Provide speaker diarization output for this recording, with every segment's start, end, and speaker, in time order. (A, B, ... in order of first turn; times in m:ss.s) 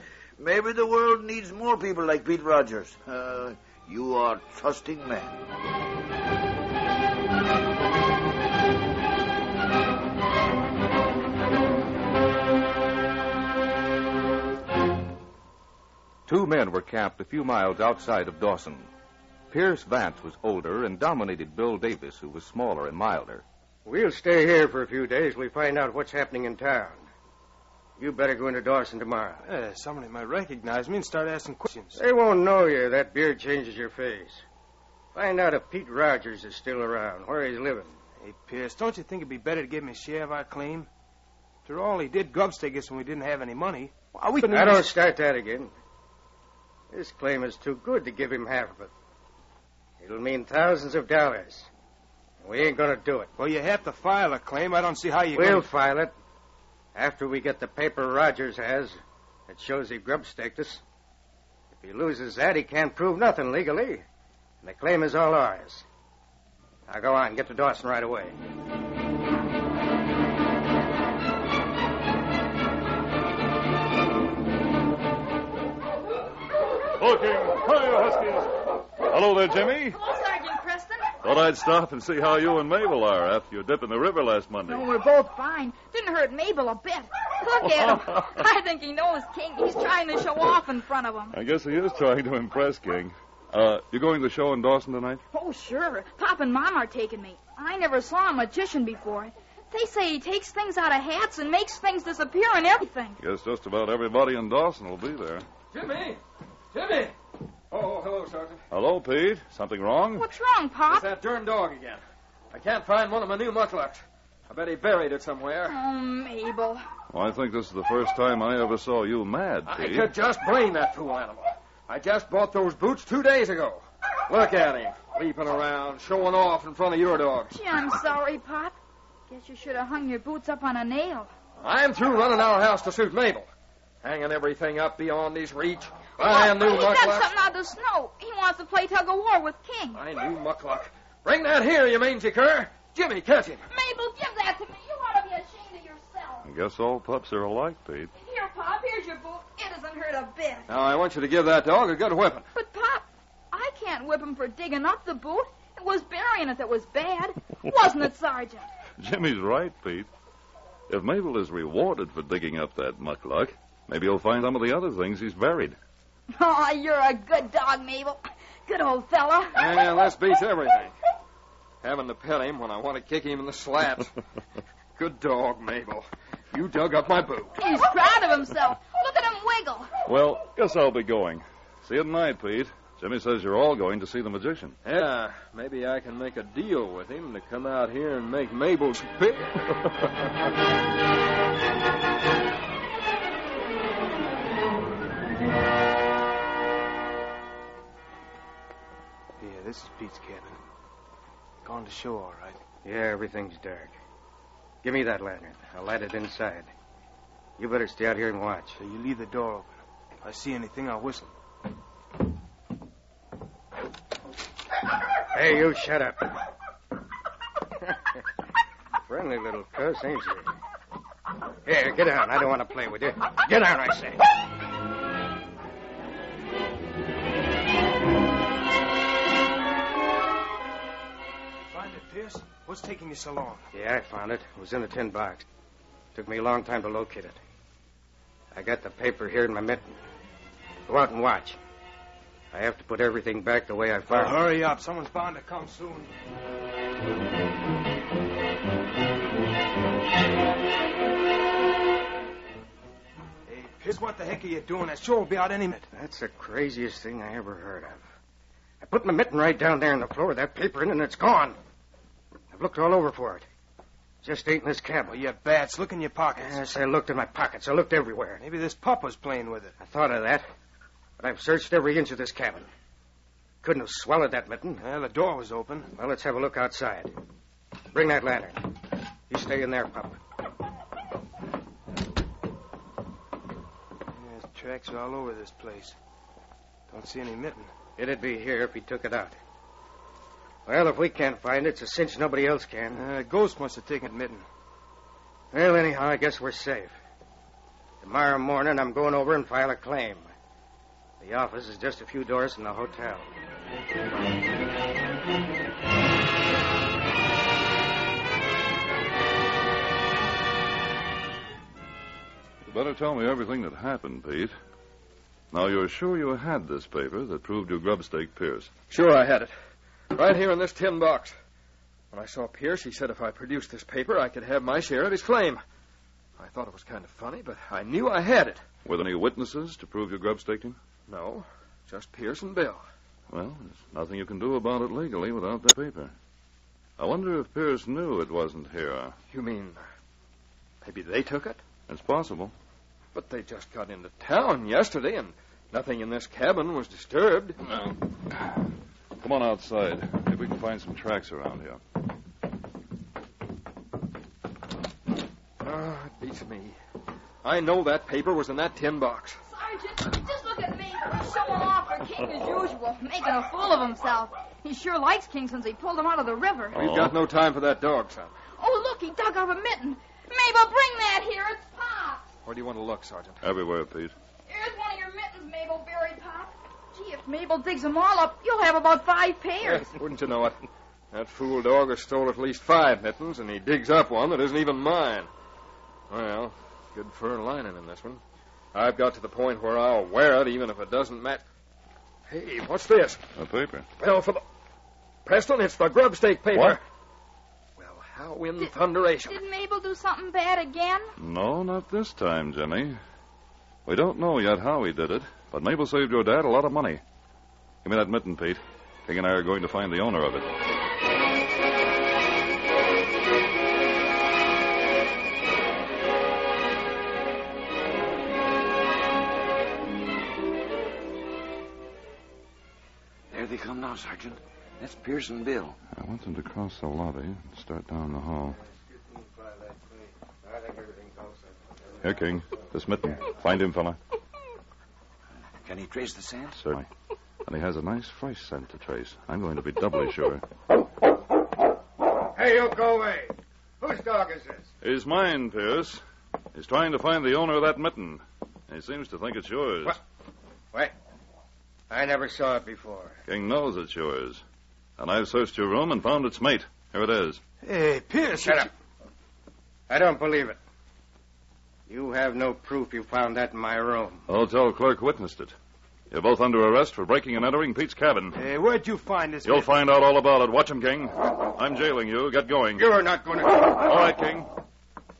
0:00.4-0:05.4 A
0:16.3-0:18.9 B
0:19.5-0:23.4 B
0:23.9-0:27.1 C
0:28.0-0:29.4 C
0:29.4-0:32.0 D
0:31.9-0:34.4 C
0:35.2-0:38.0 C
0:38.2-0:40.9 D
0:41.6-0:44.9 D
0:44.4-0:45.7 C
0:46.9-0:48.9 C
0:50.0-0:51.7 C
0:52.4-0:53.3 C
0:53.4-0:55.6 D
0:55.3-0:56.1 C
0:57.0-1:00.8 C
1:01.8-1:04.0 C
1:04.6-1:05.8 C
1:06.9-1:08.4 C
1:17.0-1:20.0 E
1:19.9-1:21.1 F
1:21.2-1:24.9 E
1:24.7-1:31.4 F
1:27.7-1:28.2 E
1:31.3-1:35.2 E
1:35.3-1:43.2 F
1:43.2-1:45.5 E
1:45.7-1:46.2 G
1:46.7-1:47.1 G
1:47.7-1:48.6 G
1:48.7-1:50.3 E
1:50.2-1:51.1 F
1:50.9-1:55.8 G
1:55.7-1:56.8 F
1:57.1-2:00.1 E
1:59.7-2:07.6 G
2:07.5-2:08.8 F
2:09.3-2:11.3 F
2:11.6-2:13.5 G
2:14.0-2:17.3 G
2:16.2-2:20.0 F
2:19.9-2:23.7 G
2:23.7-2:26.4 F
2:26.4-2:28.1 E
2:28.2-2:30.7 F
2:30.7-2:32.5 G
2:32.5-2:38.7 F
2:39.0-2:40.1 E
2:40.9-2:45.8 E
2:46.3-2:49.8 F
2:49.5-2:51.0 G
2:51.8-2:54.1 G
2:55.0-2:57.6 G
2:57.6-2:59.9 F
3:00.0-3:04.8 E
3:04.8-3:10.0 G
3:19.4-3:20.6 D
3:21.6-3:22.6 D
3:22.8-3:24.0 C
3:24.8-3:26.7 C
3:27.6-3:28.8 C
3:28.8-3:31.3 D
3:35.3-3:36.4 C
3:39.1-3:40.5 C
3:41.6-3:44.2 C
3:51.7-3:53.6 D
3:53.7-3:55.5 C
3:56.2-3:57.4 C
3:58.5-3:59.9 C
4:00.9-4:01.6 C
4:02.5-4:04.5 C
4:04.1-4:06.1 D
4:13.5-4:15.9 D
4:15.9-4:18.0 C
4:18.8-4:21.6 C
4:22.5-4:23.5 C
4:24.2-4:25.2 C
4:25.1-4:26.6 D
4:26.4-4:28.5 C
4:28.4-4:29.8 D
4:29.8-4:30.5 C
4:31.2-4:32.7 C
4:33.6-4:34.9 C
4:34.8-4:35.9 D
4:35.8-4:37.1 C
4:37.9-4:38.7 C
4:39.3-4:40.2 C
4:44.2-4:46.0 D
4:46.9-4:47.7 D
4:48.0-4:49.4 C
4:50.7-4:53.1 C
4:53.0-4:54.4 D
4:55.5-4:57.0 C
4:58.0-5:00.3 C
5:01.2-5:03.3 C
5:12.6-5:14.5 E
5:15.5-5:18.7 E
5:18.9-5:19.5 G
5:20.1-5:21.4 G
5:22.1-5:25.6 G
5:26.4-5:28.6 G
5:28.8-5:30.8 E
5:31.1-5:32.8 G
5:33.3-5:36.1 E
5:37.0-5:39.2 E
5:39.3-5:39.8 G
5:40.8-5:41.6 G
5:41.9-5:42.5 E
5:43.1-5:47.6 G
5:47.7-5:48.6 E
5:49.2-5:51.8 E
5:55.6-5:56.8 G
5:57.4-5:59.4 G
5:59.5-6:06.8 F
6:06.7-6:07.2 E
6:06.7-6:08.3 G
6:08.6-6:12.2 F
6:12.4-6:13.5 G
6:13.4-6:14.1 E
6:14.5-6:19.9 F
6:19.6-6:20.6 G
6:21.1-6:25.3 G
6:26.1-6:28.2 G
6:28.7-6:31.4 G
6:32.3-6:33.3 G
6:33.4-6:33.9 E
6:34.0-6:34.4 G
6:35.3-6:36.8 G
6:36.5-6:36.8 E
6:37.8-6:39.4 G
6:39.2-6:41.1 F
6:41.2-6:43.0 E
6:43.9-6:47.0 E
6:47.8-6:50.5 E
7:03.3-7:05.8 A
7:05.9-7:08.6 E
7:08.9-7:12.4 C
7:12.0-7:14.0 E
7:15.6-7:16.6 A
7:16.6-7:16.9 E
7:17.4-7:20.4 E
7:22.3-7:24.7 C
7:24.8-7:26.0 E
7:26.5-7:30.0 E
7:31.9-7:33.2 C
7:33.3-7:34.4 E
7:35.0-7:37.4 E
7:37.6-7:38.7 D
7:38.3-7:38.7 C
7:39.9-7:40.6 C
7:41.9-7:44.2 C
7:44.3-7:45.5 E
7:46.1-7:48.4 E
7:48.4-7:49.7 D
7:49.4-7:52.8 E
7:52.8-7:53.8 C
7:53.7-7:54.5 E